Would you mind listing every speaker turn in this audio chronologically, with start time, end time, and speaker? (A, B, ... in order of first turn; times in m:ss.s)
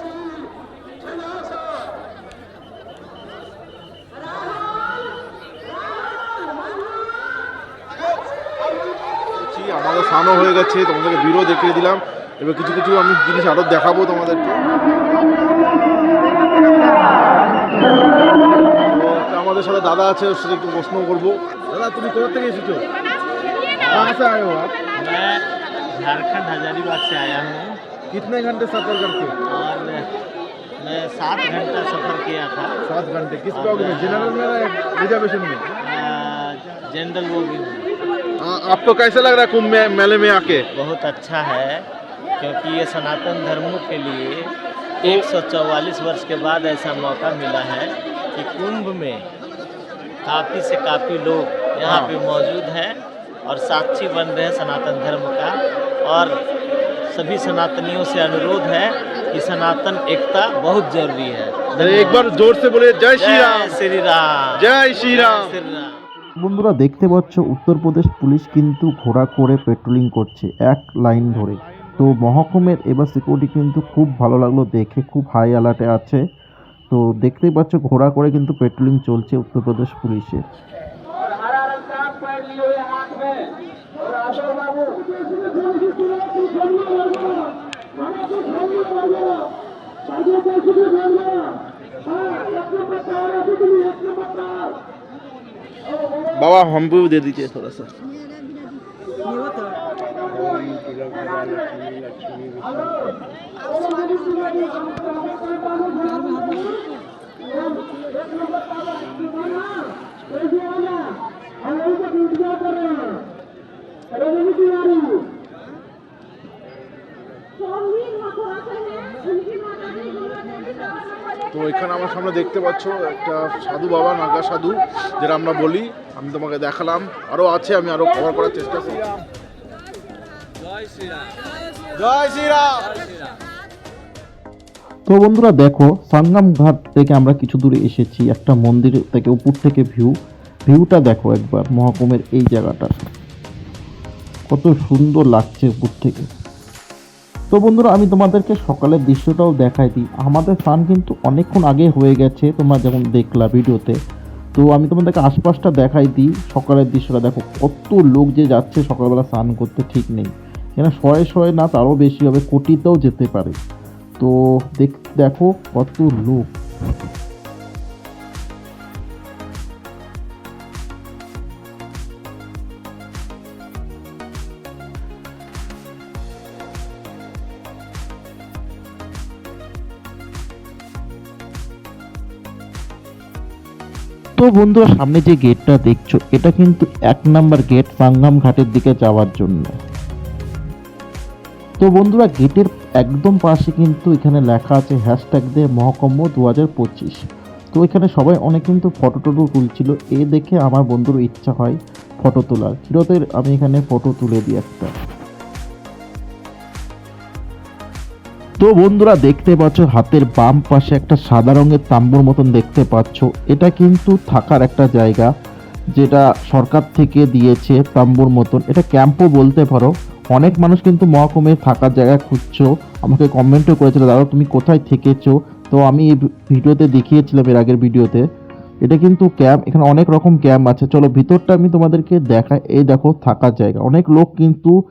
0:09.4-0:14.6 A
0:18.9-0:22.8 A
0:23.8-0:24.2 B
0:23.9-0:24.8 A
0:25.0-0:27.8 B
0:28.1-0:29.4 A
0:29.5-0:30.1 B
0:30.8-0:32.8 B
0:32.9-0:35.7 A
0:33.5-0:34.4 B
0:35.8-0:37.9 B
0:38.4-0:40.6 A
0:40.5-0:41.9 B
0:42.4-0:49.3 B
0:50.2-0:56.4 B
0:51.9-0:52.1 A
0:57.1-1:02.4 B
1:01.8-1:03.8 A
1:03.2-1:06.0 B
1:04.6-1:05.5 A
1:06.4-1:16.2 C
1:16.9-1:20.4 C
1:36.4-1:37.9 A
2:01.5-2:09.2 A
2:12.0-2:13.0 A
2:15.1-2:20.1 C
2:20.6-2:23.0 C
2:24.5-2:26.3 C
2:27.5-2:34.0 C
2:34.6-2:43.6 C
2:44.2-2:46.5 C
3:04.4-3:09.8 C
3:11.8-3:17.2 C
3:17.7-3:24.9 C
3:28.6-3:35.3 C
3:36.0-3:48.2 C
3:48.8-3:54.8 C